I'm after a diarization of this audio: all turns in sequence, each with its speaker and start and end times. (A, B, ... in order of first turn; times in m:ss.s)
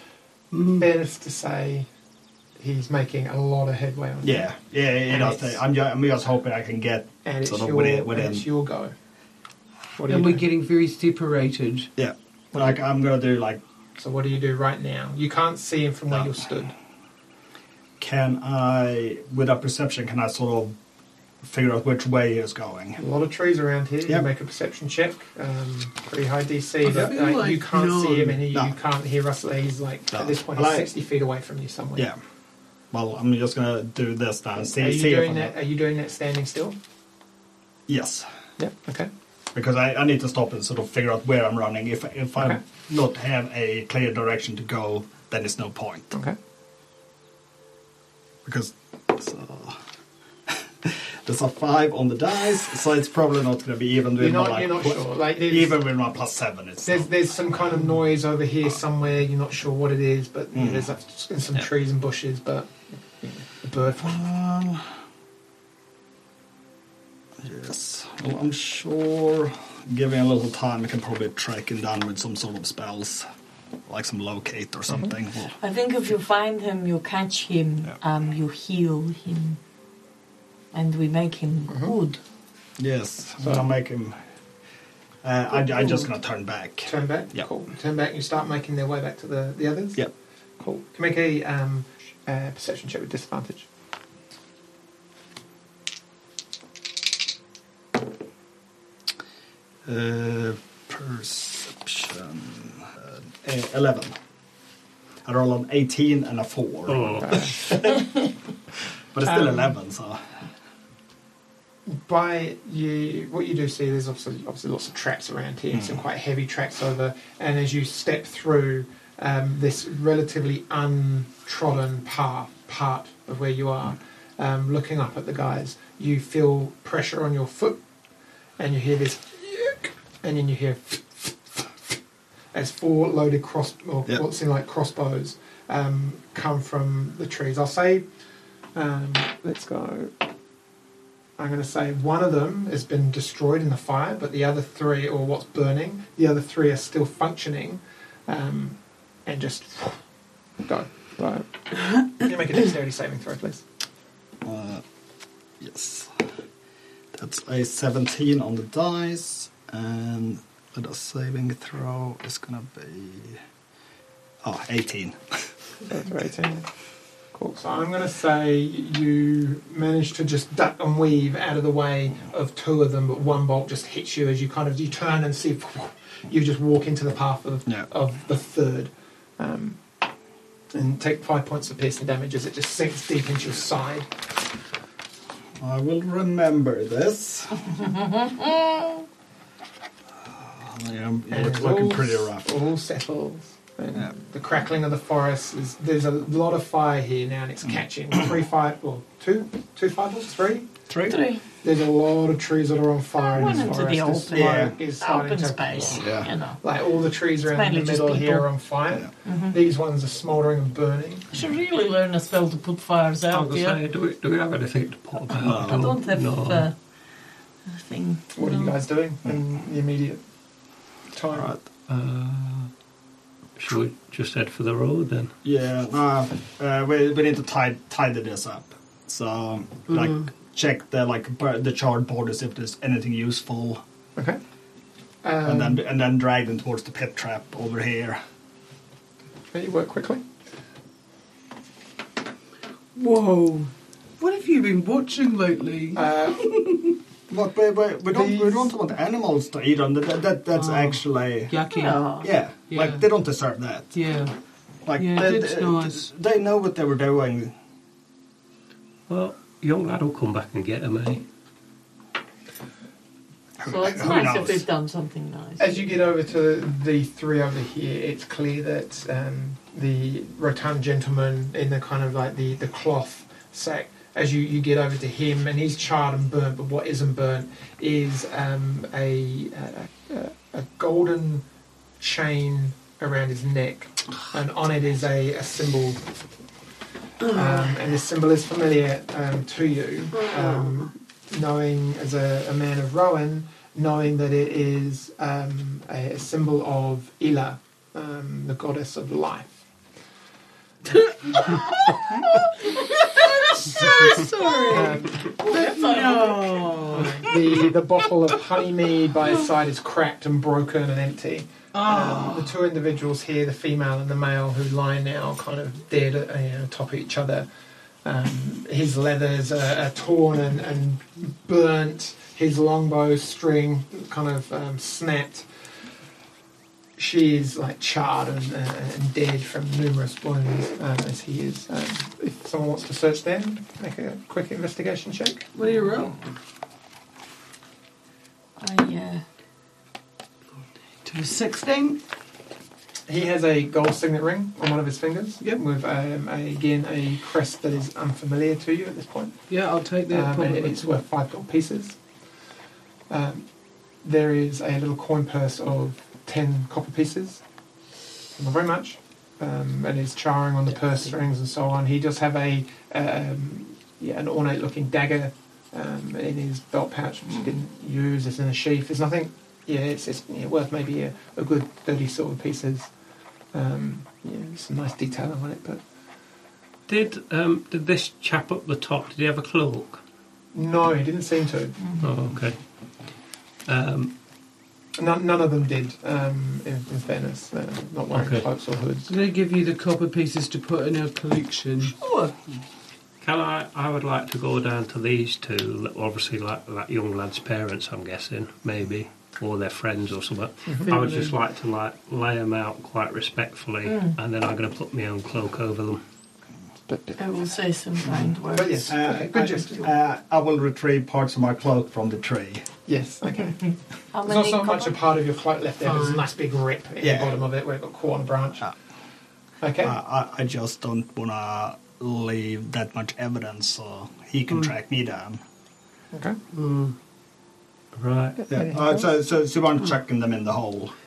0:00.5-0:00.9 A
0:00.7-0:01.9 B
0:02.6-0:04.5 B
0:04.2-0:08.5 C
0:05.1-0:05.6 B
0:07.2-0:08.9 B
0:10.0-0:10.5 B
0:10.1-0:11.9 A
0:12.0-0:13.6 C
0:14.0-0:16.7 B
0:18.0-0:20.8 C
0:21.4-0:23.0 C
0:23.0-0:32.1 B
0:26.8-0:28.4 A
0:28.5-0:28.8 C
0:30.1-0:30.9 C
0:32.9-0:35.6 C
0:34.7-0:36.8 B
0:37.9-0:38.3 C
0:38.6-0:39.1 B
0:39.5-0:46.2 C
0:48.4-0:49.8 C
0:50.5-0:57.1 C
0:54.2-0:55.8 B
0:56.8-1:04.2 B
1:00.5-1:00.9 C
1:04.0-1:05.0 C
1:07.4-1:13.2 C
1:13.9-1:15.6 C
1:15.6-1:19.6 D
1:20.7-1:22.2 D
1:21.7-1:22.0 B
1:22.8-1:24.2 C
1:23.4-1:23.7 B
1:25.2-1:27.5 C
1:26.9-1:30.0 B
1:30.6-1:33.7 B
1:39.8-1:44.2 C
1:45.2-1:48.1 C
1:46.9-1:47.6 E
1:47.2-1:48.0 B
1:49.1-1:50.3 C
1:49.3-1:49.7 B
1:51.9-2:07.8 B
2:08.6-2:11.8 B
2:12.5-2:18.1 B
2:18.8-2:20.1 B
2:21.4-2:30.0 B
2:30.6-2:31.5 B
2:32.1-2:33.6 B
2:34.4-2:34.8 C
2:35.6-2:36.3 C
2:37.1-2:43.4 C
2:44.4-2:45.5 C
2:45.9-2:46.7 B
2:47.3-2:59.8 B
3:00.7-3:04.1 B
3:05.6-3:07.7 C
3:08.0-3:08.7 D
3:10.2-3:12.6 C
3:11.3-3:20.7 B
3:20.9-3:21.2 C
3:21.1-3:21.4 D
3:21.6-3:31.3 B
3:23.2-3:26.6 D
3:24.3-3:24.8 C
3:26.0-3:26.3 C
3:27.5-3:28.5 D
3:29.2-3:29.6 D
3:31.3-3:33.8 D
3:33.3-3:36.7 E
3:35.3-3:36.8 D
3:35.4-3:36.0 C
3:37.7-3:38.8 D
3:38.4-3:40.2 B
3:41.1-3:41.5 B
3:41.3-3:41.6 C
3:41.9-3:42.7 E
3:43.6-3:45.3 E
3:45.4-3:53.8 C
3:49.9-3:50.2 A
3:55.2-3:55.8 B
3:55.4-3:58.2 C
3:59.5-4:00.2 B
4:03.0-4:06.9 A
4:06.0-4:06.6 B
4:07.3-4:11.5 C
4:08.1-4:08.8 B
4:10.6-4:12.1 A
4:11.8-4:12.3 D
4:12.2-4:13.9 C
4:12.7-4:13.0 A
4:13.9-4:14.3 A
4:14.9-4:17.6 C
4:15.0-4:16.1 A
4:19.1-4:21.2 E
4:23.6-4:24.7 C
4:23.6-4:25.8 D
4:25.6-4:41.5 B
4:42.0-4:46.0 B
4:47.2-4:59.6 B
4:47.3-4:47.7 A
4:50.3-4:50.6 A
5:00.9-5:07.6 A
5:02.7-5:07.1 D
5:04.7-5:05.3 B
5:06.9-5:17.5 B
5:11.7-5:12.6 A
5:18.0-5:25.5 B
5:27.0-5:35.5 B
5:35.5-5:36.3 A
5:38.6-5:39.2 D
5:41.0-5:42.0 A
5:43.1-5:49.4 B
5:49.5-5:51.0 A
5:50.1-5:52.0 B
5:53.1-5:53.5 B
5:54.0-5:57.4 B
5:58.4-6:12.9 B
6:13.5-6:15.8 B
6:16.9-6:20.0 E
6:20.5-6:21.9 B
6:22.0-6:22.6 E
6:23.7-6:24.1 E
6:25.0-6:29.1 B
6:28.1-6:28.4 E
6:29.1-6:32.3 A
6:33.2-6:46.0 E
6:40.7-6:41.0 B
6:40.9-6:41.3 A
6:43.9-6:44.2 D
6:46.9-6:47.2 B
6:47.2-6:49.0 D
6:48.1-6:49.9 B
6:48.9-6:52.7 C
6:52.9-6:53.6 B
6:54.1-6:55.0 D
6:54.2-6:58.7 B
6:55.8-6:56.2 A
6:57.0-6:57.4 C
6:59.6-7:00.0 B
6:59.8-7:05.4 C
7:06.1-7:06.4 B
7:06.5-7:07.0 A
7:07.9-7:08.4 E
7:08.4-7:09.1 B
7:08.5-7:10.9 C